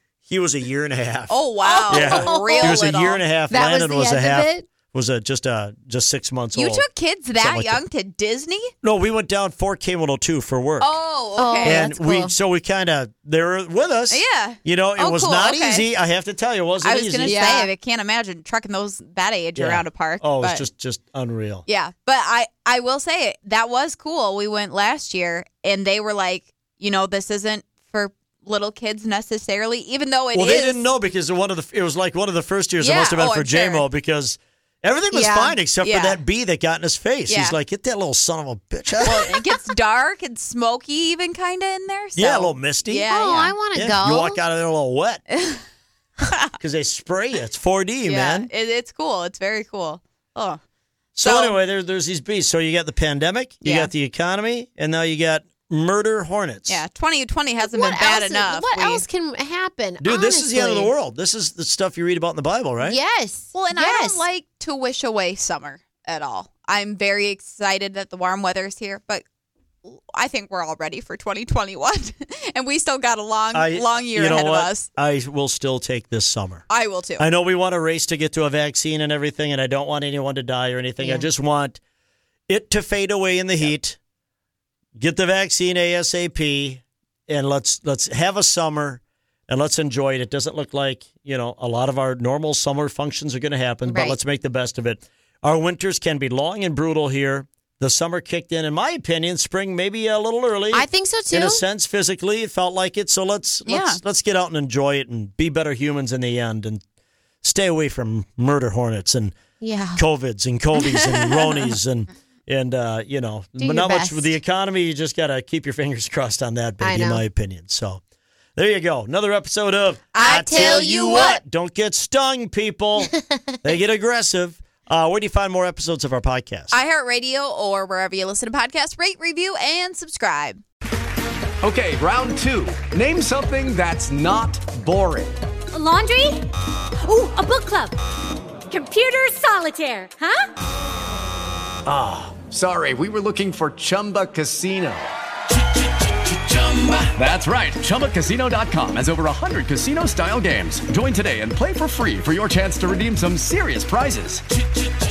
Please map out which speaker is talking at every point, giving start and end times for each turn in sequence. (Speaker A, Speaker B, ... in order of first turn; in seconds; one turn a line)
Speaker A: 0.2-6.8
Speaker B: 1.3-3.2
Speaker C: 1.6-2.8
Speaker C: 3.5-4.7
Speaker B: 6.5-8.7
Speaker A: 7.4-7.8
Speaker A: 8.8-10.9
Speaker B: 10.8-11.9
Speaker C: 11.4-12.3
Speaker A: 11.6-17.6
Speaker B: 14.1-15.9
Speaker B: 16.8-20.6
Speaker C: 17.2-17.7
Speaker A: 19.5-21.6
Speaker B: 21.6-30.9
Speaker A: 30.3-39.3
Speaker B: 32.8-33.8
Speaker C: 35.1-35.5
Speaker B: 35.8-36.2
Speaker B: 37.3-37.6
Speaker B: 39.0-43.6
Speaker A: 42.1-43.0
Speaker C: 43.1-44.4
Speaker A: 43.7-45.2
Speaker B: 45.3-45.6
Speaker A: 46.6-48.5
Speaker B: 48.0-50.6
Speaker A: 51.1-56.8
Speaker B: 51.2-51.6
Speaker B: 53.6-53.9
Speaker B: 56.7-59.0
Speaker C: 57.6-60.9
Speaker A: 60.0-63.0
Speaker C: 62.8-64.2
Speaker B: 63.5-69.2
Speaker B: 69.8-74.9
Speaker A: 73.5-76.6
Speaker B: 76.7-77.3
Speaker A: 77.2-81.8
Speaker C: 81.0-81.2
Speaker A: 82.5-84.0
Speaker A: 85.0-106.8
Speaker C: 93.8-94.2
Speaker C: 100.7-101.6
Speaker B: 103.7-104.0
Speaker A: 107.4-109.4
Speaker C: 109.6-110.0
Speaker A: 109.9-118.0
Speaker B: 110.8-111.8
Speaker C: 113.6-114.3
Speaker C: 116.8-117.2
Speaker A: 118.5-126.8
Speaker B: 120.1-121.4
Speaker C: 120.2-121.4
Speaker B: 126.7-130.6
Speaker D: 131.6-135.3
Speaker E: 135.7-136.5
Speaker E: 137.0-137.9
Speaker E: 138.7-140.4
Speaker D: 142.0-145.1
Speaker D: 147.0-149.3
Speaker D: 150.3-154.2